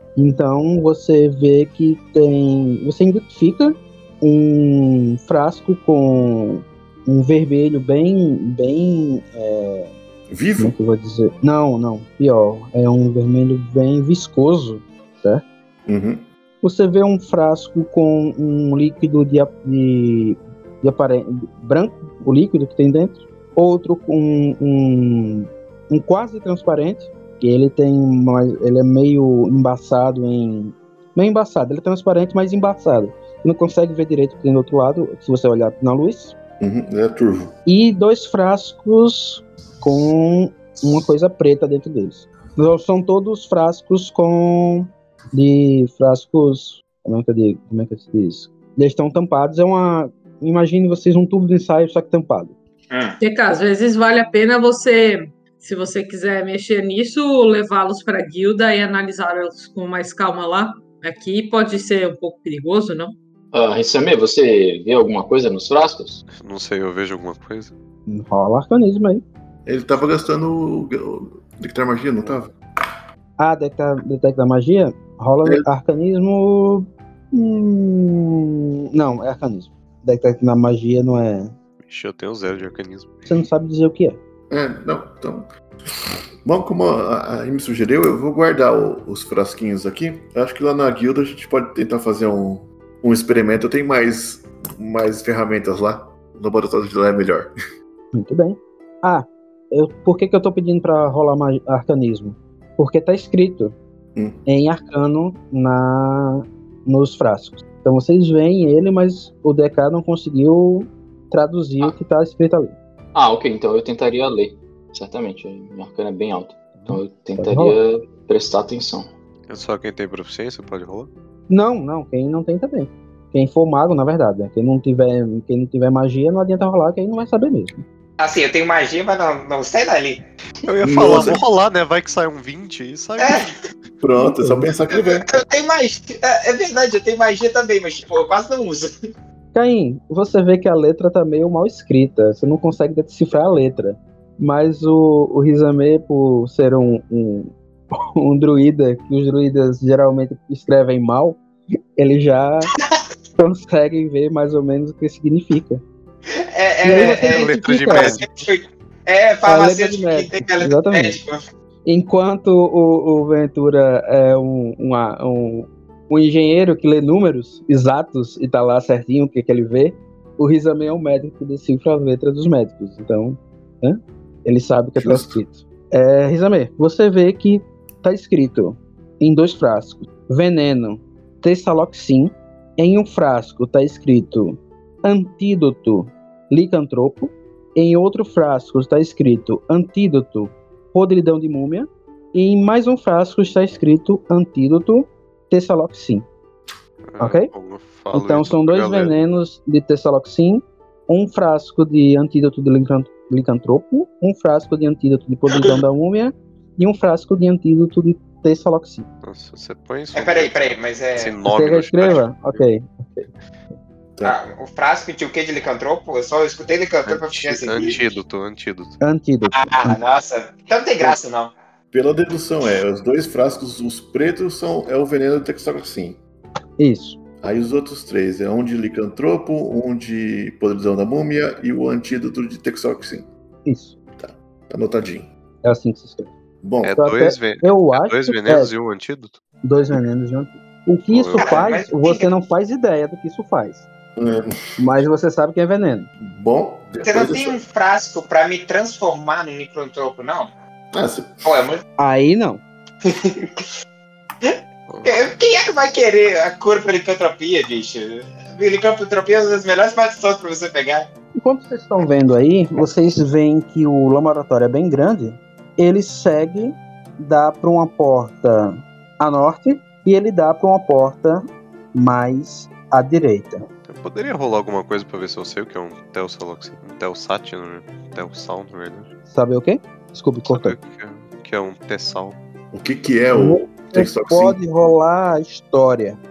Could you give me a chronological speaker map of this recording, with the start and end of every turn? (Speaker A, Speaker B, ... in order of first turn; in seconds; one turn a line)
Speaker A: 0.1-9.9
Speaker B: 10.3-10.7
Speaker A: 10.6-15.4
Speaker B: 15.9-16.2
Speaker A: 16.6-36.3
Speaker B: 36.6-37.5
Speaker A: 37.6-52.5
Speaker C: 52.9-53.2
Speaker D: 53.2-63.1
Speaker E: 63.5-66.2
Speaker F: 66.3-67.7
Speaker A: 68.1-69.2
Speaker B: 69.7-72.5
Speaker A: 73.4-81.5
Speaker F: 81.8-83.3
Speaker A: 83.2-84.2
Speaker B: 84.5-85.5
Speaker B: 86.4-97.5
Speaker A: 98.1-103.8
Speaker A: 104.5-112.8
Speaker E: 113.1-119.1
Speaker A: 116.8-117.8
Speaker F: 119.5-121.1
Speaker A: 121.5-127.8
Speaker C: 128.2-130.2
Speaker F: 130.6-133.5
Speaker B: 130.8-131.4
Speaker C: 133.2-133.5
Speaker B: 134.0-135.3
Speaker A: 134.2-134.7
Speaker C: 134.9-138.9
Speaker A: 139.5-147.5
Speaker A: 148.2-151.4
Speaker A: 152.0-152.7
Speaker A: 153.4-155.8
Speaker C: 156.5-161.4
Speaker A: 156.8-158.2
Speaker F: 157.0-158.2
Speaker A: 159.4-161.2
Speaker A: 161.8-196.2
Speaker B: 175.0-175.4
Speaker F: 197.1-199.1
Speaker A: 197.2-197.5
Speaker A: 198.1-209.1
Speaker F: 209.2-212.6
Speaker C: 210.1-211.4
Speaker A: 211.4-213.3
Speaker C: 214.2-218.2
Speaker F: 217.0-219.0
Speaker A: 219.0-220.0
Speaker C: 219.5-221.5
Speaker B: 221.9-226.2
Speaker A: 226.8-227.2
Speaker B: 227.4-233.3
Speaker A: 233.6-233.9
Speaker B: 234.2-235.3
Speaker A: 235.6-236.3
Speaker B: 236.6-236.9
Speaker F: 236.8-239.4
Speaker A: 236.9-238.7
Speaker A: 239.6-243.8
Speaker F: 241.1-241.7
Speaker C: 241.4-242.3
Speaker B: 244.2-244.6
Speaker A: 244.8-246.1
Speaker B: 246.2-247.6
Speaker C: 247.0-250.5
Speaker B: 250.9-251.4
Speaker C: 251.4-251.8
Speaker A: 252.0-252.6
Speaker C: 253.0-253.7
Speaker C: 254.4-261.1
Speaker F: 254.9-255.3
Speaker A: 261.4-273.6
Speaker F: 273.9-279.1
Speaker A: 279.3-280.8
Speaker F: 280.4-282.4
Speaker B: 282.7-284.6
Speaker A: 283.3-286.2